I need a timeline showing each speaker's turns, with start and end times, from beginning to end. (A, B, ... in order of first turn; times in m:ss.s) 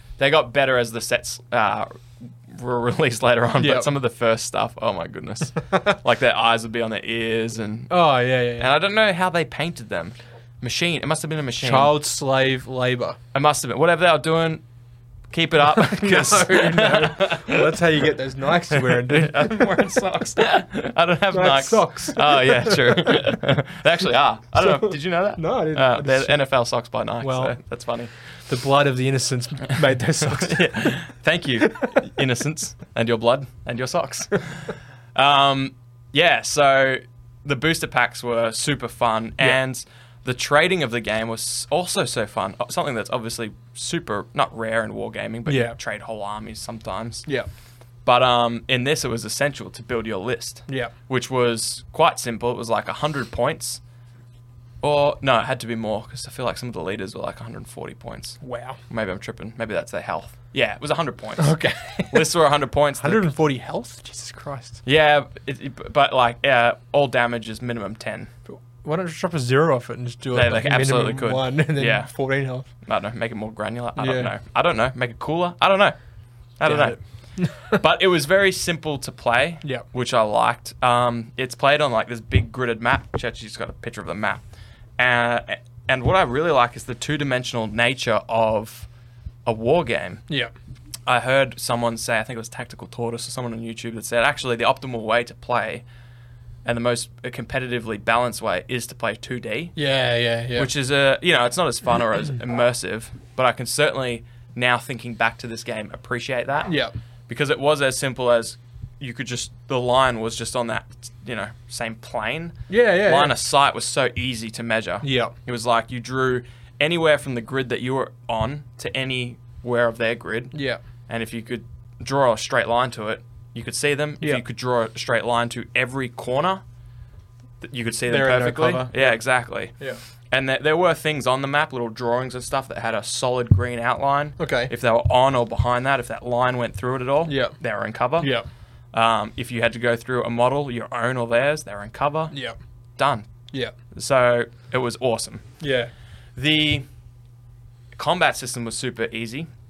0:00.2-0:07.9 A
0:03.6-0:03.9 B
0:07.9-0:08.7 B
0:08.6-0:11.9 A
0:11.6-0:13.2 B
0:13.3-0:14.6 A
0:15.3-0:17.8 A
0:15.7-0:19.7 B
0:18.7-0:28.1 A
0:21.3-0:23.4 B
0:24.6-0:26.5 B
0:27.2-0:27.6 B
0:28.5-0:31.0 B
0:30.3-0:47.3 A
0:31.6-0:31.9 B
0:45.4-0:45.8 B
0:48.0-0:53.8 A
0:54.8-1:01.6 A
0:58.4-0:58.8 B
1:01.4-1:02.3 B
1:02.1-1:03.2 A
1:03.0-1:04.8 B
1:04.8-1:08.3 A
1:08.5-1:12.7 B
1:10.3-1:12.1 A
1:12.8-1:16.0 A
1:14.0-1:14.3 B
1:16.6-1:17.0 A
1:16.6-1:17.8 B
1:17.6-1:24.4 A
1:25.0-1:28.9 A
1:29.4-1:30.2 A
1:31.1-1:35.8 A
1:36.6-1:39.8 A
1:39.8-1:40.7 B
1:40.6-1:46.7 A
1:46.7-1:46.9 B
1:47.3-2:00.6 A
1:52.7-1:53.3 B
1:55.0-1:55.3 B
2:00.5-2:00.8 B
2:01.1-2:06.6 A
2:07.6-2:09.7 A
2:08.1-2:09.2 B
2:10.3-2:18.3 A
2:14.4-2:14.7 B
2:17.3-2:17.6 B
2:18.2-2:18.4 B
2:18.9-2:22.3 A
2:22.3-2:22.6 B
2:23.0-2:23.3 A
2:23.9-2:25.4 A
2:25.6-2:25.9 B
2:26.4-2:26.9 A
2:27.9-2:29.5 A